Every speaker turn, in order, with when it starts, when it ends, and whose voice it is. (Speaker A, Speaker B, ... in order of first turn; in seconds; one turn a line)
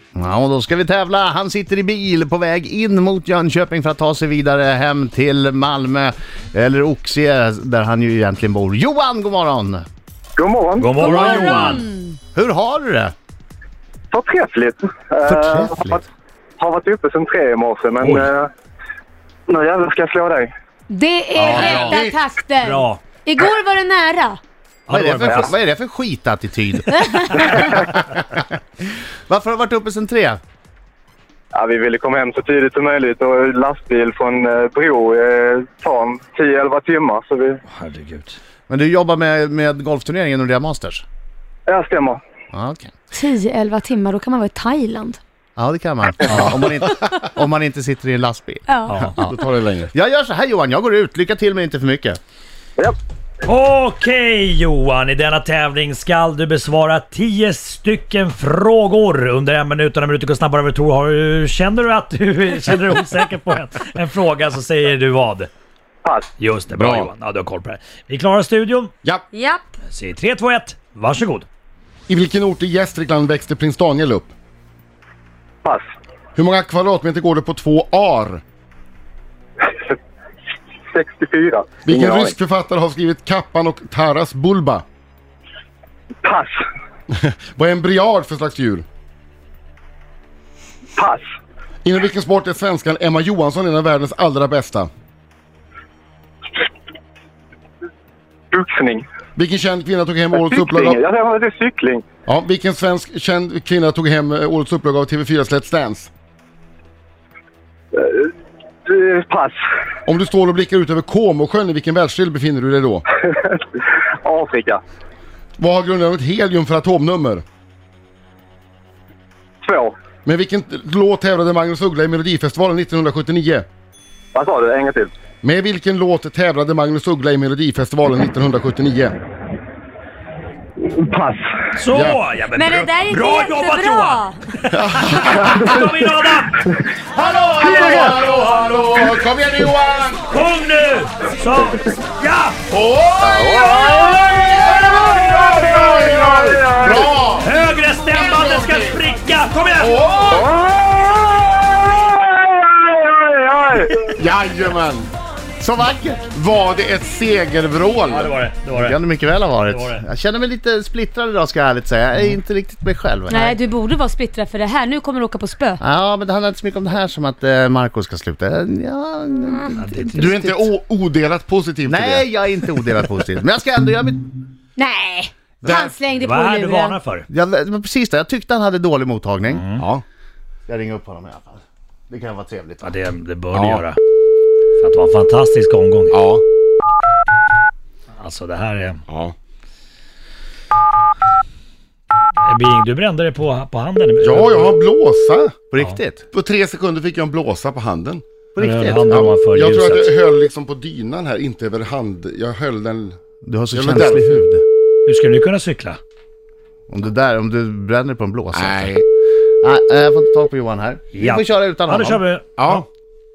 Speaker A: 0.1-9.8
Speaker B: 10.4-11.4
Speaker C: 10.8-11.8
Speaker D: 11.0-12.2
Speaker A: 12.3-13.1
Speaker B: 14.1-16.0
Speaker A: 15.2-16.1
Speaker B: 16.6-18.5
Speaker C: 18.0-18.3
Speaker B: 19.5-20.5
Speaker D: 20.9-24.4
Speaker E: 21.4-22.2
Speaker C: 21.4-22.0
Speaker C: 22.6-23.0
Speaker C: 24.9-25.5
Speaker A: 24.9-28.5
Speaker D: 26.9-27.5
Speaker A: 29.3-30.4
Speaker B: 31.5-37.6
Speaker C: 37.7-38.4
Speaker A: 38.7-41.0
Speaker B: 41.7-42.2
Speaker A: 42.5-42.9
Speaker D: 43.1-45.2
Speaker A: 45.6-49.3
Speaker D: 48.7-49.0
Speaker C: 48.9-49.2
Speaker E: 49.2-49.9
Speaker A: 49.9-52.2
Speaker C: 53.4-65.5
Speaker C: 66.4-68.9
Speaker E: 66.7-67.1
Speaker D: 69.3-69.6
Speaker C: 69.9-71.5
Speaker E: 72.1-74.3
Speaker E: 76.3-78.4
Speaker B: 80.9-82.3
Speaker E: 81.8-84.8
Speaker B: 86.2-86.5
Speaker E: 87.1-88.8
Speaker B: 91.0-91.2
Speaker E: 91.8-94.9
Speaker B: 98.5-99.0
Speaker E: 99.3-101.0
Speaker B: 100.3-102.0
Speaker E: 102.3-106.1
Speaker B: 107.9-108.3
Speaker B: 108.8-109.6
Speaker E: 110.0-113.0
Speaker B: 114.2-114.8
Speaker E: 115.6-117.4
Speaker B: 119.6-119.9
Speaker E: 120.2-123.7
Speaker B: 124.3-125.1
Speaker E: 125.4-129.1
Speaker B: 130.8-131.5
Speaker C: 131.8-136.7
Speaker E: 131.9-132.2
Speaker D: 132.5-134.4
Speaker E: 134.7-135.7
Speaker E: 137.1-140.3
Speaker B: 137.7-138.1
Speaker C: 140.3-142.6
Speaker E: 142.7-147.5
Speaker B: 143.2-147.1
Speaker C: 147.4-150.0
Speaker E: 148.1-149.0
Speaker E: 149.8-150.5
Speaker B: 150.3-154.2
Speaker E: 154.2-155.1
Speaker A: 155.6-156.3
Speaker E: 156.3-158.3
Speaker C: 158.1-159.0
Speaker A: 158.8-163.6
Speaker C: 159.7-160.0
Speaker D: 163.3-165.8
Speaker A: 165.8-170.2
Speaker C: 169.8-170.5
Speaker E: 170.1-172.3
Speaker A: 171.8-174.4
Speaker D: 174.8-177.0
Speaker A: 175.6-175.9
Speaker C: 175.7-177.3
Speaker A: 177.3-179.6
Speaker C: 179.5-179.9
Speaker E: 179.8-180.0
Speaker A: 180.7-182.9
Speaker C: 182.8-184.0
Speaker E: 183.5-183.8
Speaker C: 184.8-186.2
Speaker E: 186.1-186.4
Speaker C: 188.2-189.0
Speaker E: 189.1-189.3
Speaker C: 192.4-194.7
Speaker E: 194.2-195.6
Speaker A: 195.7-196.2
Speaker E: 196.3-198.2
Speaker A: 198.6-199.2
Speaker C: 198.6-200.1
Speaker E: 199.1-203.2
Speaker A: 203.4-204.6
Speaker E: 203.7-204.4
Speaker C: 205.1-206.0
Speaker A: 206.9-208.9
Speaker E: 208.5-209.0
Speaker A: 209.6-212.2
Speaker C: 211.1-212.8
Speaker E: 212.6-212.8